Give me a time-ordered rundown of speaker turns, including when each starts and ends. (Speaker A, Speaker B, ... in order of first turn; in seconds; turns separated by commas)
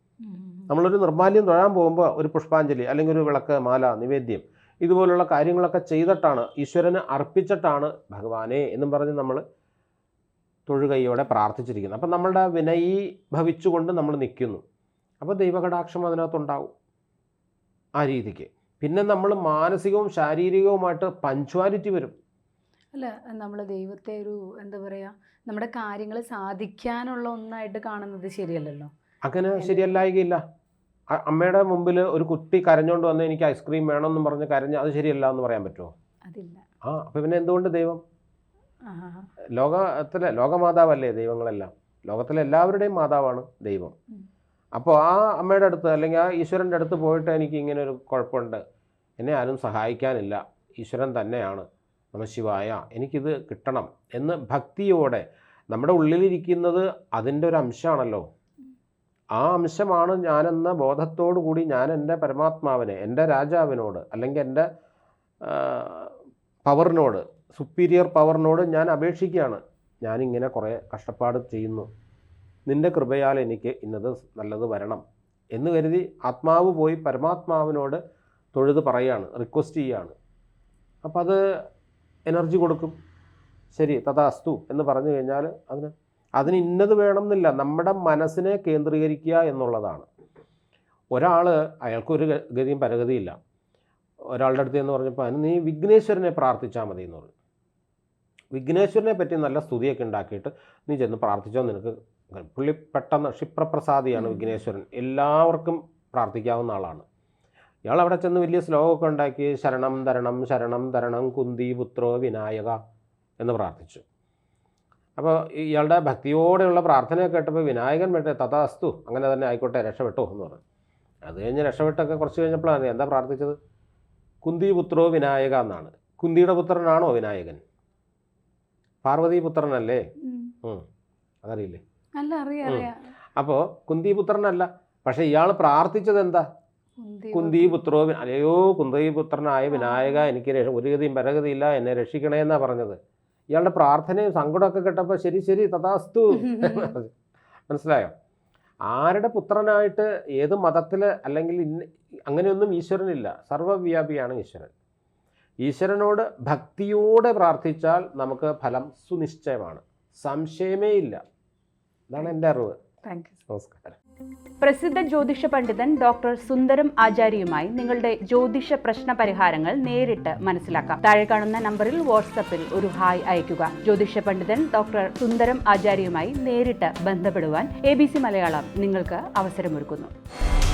Speaker A: 0.2-0.7, Speaker B: 0.7-9.4, Speaker B: 10.7-14.6, Speaker B: 15.2-16.7, Speaker B: 18.0-22.1, Speaker A: 22.9-28.9, Speaker B: 29.2-30.4, Speaker A: 29.6-29.9, Speaker B: 31.1-35.9, Speaker A: 36.3-36.6, Speaker B: 36.9-38.0, Speaker A: 38.9-39.3, Speaker B: 39.5-43.9, Speaker B: 44.8-48.6, Speaker B: 49.2-58.2, Speaker B: 59.4-64.7, Speaker B: 65.4-66.1, Speaker B: 66.6-71.9, Speaker B: 72.7-75.0, Speaker B: 75.5-78.0, Speaker B: 78.5-80.1, Speaker B: 81.0-81.4, Speaker B: 82.3-82.9, Speaker B: 83.7-90.1, Speaker B: 91.1-93.3, Speaker B: 94.3-97.3, Speaker B: 98.5-107.0, Speaker A: 104.1-104.5, Speaker B: 107.9-112.8, Speaker B: 113.4-114.0, Speaker B: 115.2-120.6, Speaker B: 121.2-123.6, Speaker B: 124.4-127.6, Speaker B: 129.0-130.0, Speaker A: 130.2-130.5, Speaker B: 131.4-131.8, Speaker A: 132.2-133.1, Speaker B: 132.6-136.4, Speaker A: 137.0-137.8, Speaker B: 137.3-143.0, Speaker A: 139.7-140.3, Speaker B: 143.5-147.1, Speaker A: 146.5-146.9, Speaker B: 147.7-148.1, Speaker B: 148.9-154.7, Speaker B: 155.6-161.2, Speaker B: 162.1-162.8, Speaker A: 163.0-163.4, Speaker B: 163.5-164.0, Speaker C: 164.6-180.1